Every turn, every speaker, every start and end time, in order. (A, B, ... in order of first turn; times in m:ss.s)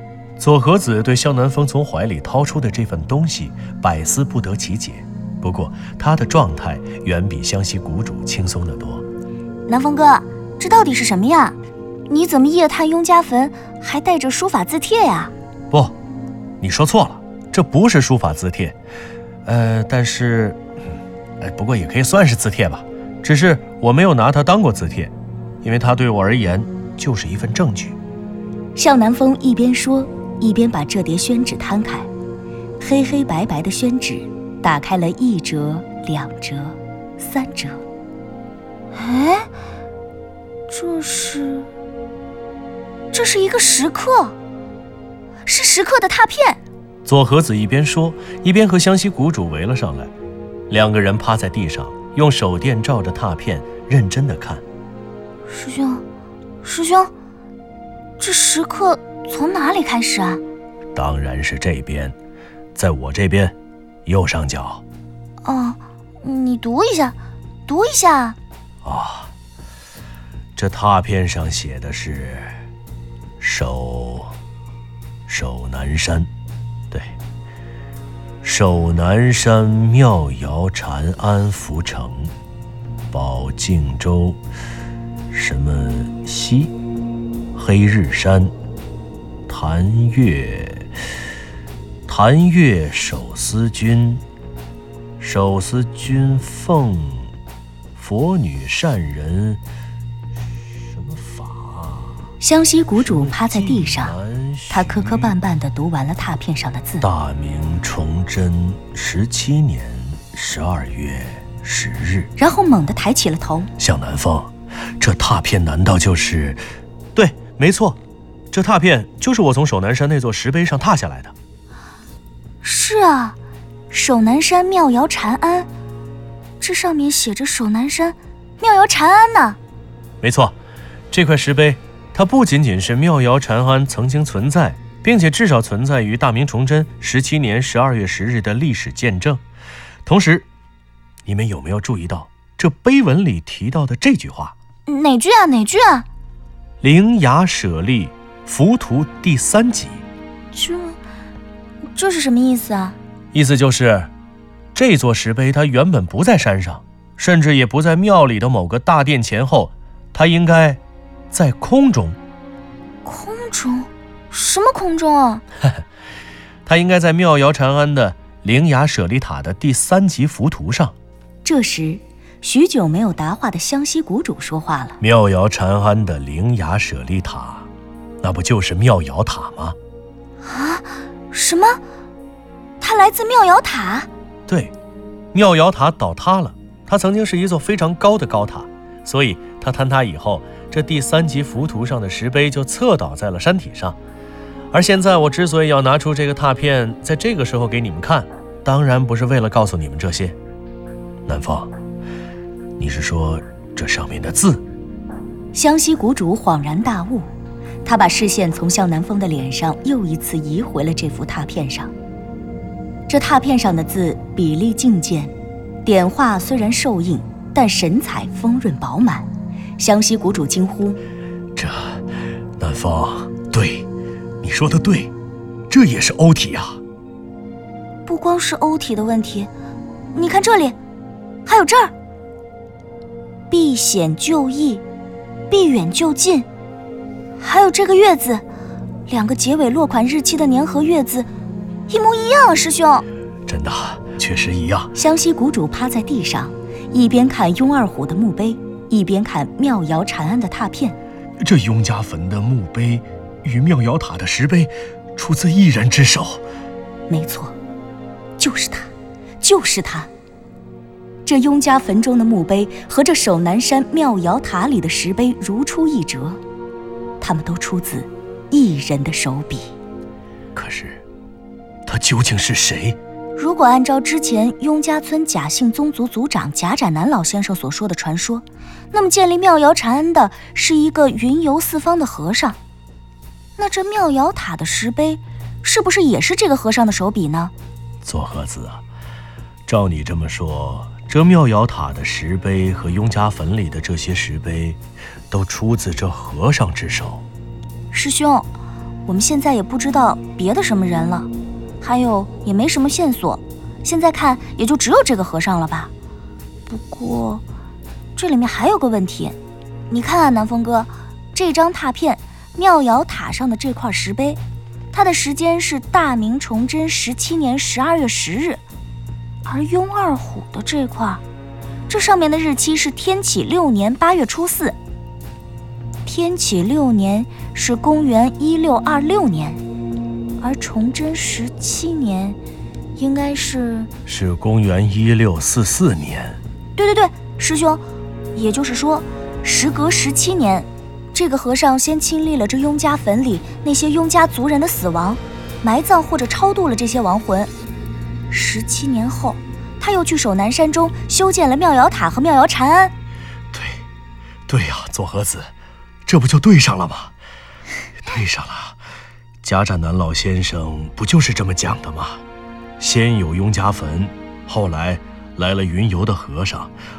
0:00.4-0:09.0 A
0:09.7-0:11.6 B
0:12.1-0:15.3 B
0:16.6-0:18.8 A
0:19.4-0:20.6 A
0:21.4-0:28.0 A
0:28.8-0:32.1 B
0:32.8-0:37.8 B
0:39.0-0:39.5 B
0:40.7-0:41.7 B
0:43.1-0:44.4 B
0:45.5-0:46.6 B
0:47.0-0:50.1 A
0:50.7-0:54.6 A
0:55.5-0:56.0 B
0:56.6-0:57.1 B
0:58.2-1:00.4 B
1:00.9-1:02.2 A
1:02.8-1:03.6 A
1:04.1-1:04.8 A
1:05.4-1:08.4 B
1:08.8-1:09.3 A
1:10.6-1:12.5 A
1:13.4-1:14.3 A
1:15.3-1:16.3 A
1:16.9-1:17.2 A
1:18.4-1:22.3 A
1:23.1-1:24.4 A
1:25.3-1:26.7 A
1:27.5-1:28.5 A
1:29.5-1:30.9 A
1:32.1-1:34.2 A
1:35.2-1:37.3 A
1:38.0-1:39.6 A
1:40.8-1:42.2 A
1:42.4-1:44.2 B
1:43.0-1:45.3 A
1:44.7-1:47.1 B
1:47.0-1:52.3 A
1:52.4-1:53.7 B
1:53.8-1:56.6 A
1:57.2-1:58.0 A
1:58.5-2:01.3 A
2:02.6-2:03.4 B
2:03.9-2:05.7 B
2:06.6-2:09.6 B
2:10.2-2:10.6 A
2:11.1-2:19.4 A
2:20.0-2:20.5 A
2:21.2-2:24.6 A
2:24.9-2:26.1 B
2:26.8-2:30.0 A
2:30.5-2:31.0 B
2:31.8-2:33.0 B
2:33.3-2:34.1 A
2:34.8-2:42.2 A
2:43.0-2:45.4 B
2:46.6-2:51.0 A
2:51.4-2:55.0 B
2:55.0-2:57.7 A
2:58.2-2:59.8 A
3:00.4-3:01.8 B
3:02.8-3:04.1 B
3:04.5-3:04.7 A
3:05.3-3:14.0 A
3:14.7-3:20.4 A
3:21.3-3:21.7 A
3:22.8-3:24.6 A
3:25.5-3:27.3 B
3:27.8-3:31.9 B
3:33.1-3:35.3 B
3:35.8-3:41.0 B
3:41.6-3:42.0 A
3:42.6-3:43.9 A
3:44.4-3:45.1 A
3:45.7-3:46.8 A
3:48.1-3:49.5 B
3:50.1-3:50.8 B
3:51.5-3:51.9 B
3:53.5-3:54.8 B
3:55.5-3:56.5 B
3:57.4-3:58.4 B
3:59.1-4:01.3 B
4:01.9-4:03.0 B
4:03.5-4:04.9 A
4:05.0-4:11.0 B
4:11.4-4:16.4 A
4:17.1-4:17.6 B
4:18.4-4:20.1 B
4:21.3-4:26.4 B
4:27.2-4:29.7 B
4:30.5-4:31.0 A
4:31.9-4:33.0 A
4:33.4-4:42.6 B
4:43.6-4:47.5 B
4:48.0-4:48.8 A
4:49.7-4:54.8 A
4:55.3-4:57.2 A
4:57.9-4:58.5 B
4:59.1-5:01.3 B
5:01.8-5:05.9 B
5:06.7-5:07.4 B
5:08.2-5:09.4 B
5:09.9-5:14.4 B
5:14.9-5:18.6 B
5:19.5-5:21.2 B
5:21.9-5:24.8 B
5:26.1-5:29.6 B
5:30.4-5:32.4 B
5:33.0-5:33.9 B
5:34.1-5:36.4 A
5:36.8-5:37.8 B
5:38.4-5:47.5 B
5:48.3-5:52.9 B
5:53.5-5:53.8 A
5:54.5-5:55.5 A
5:56.0-5:57.1 A
5:58.0-5:58.8 A
5:59.4-6:02.2 A
6:02.8-6:06.7 A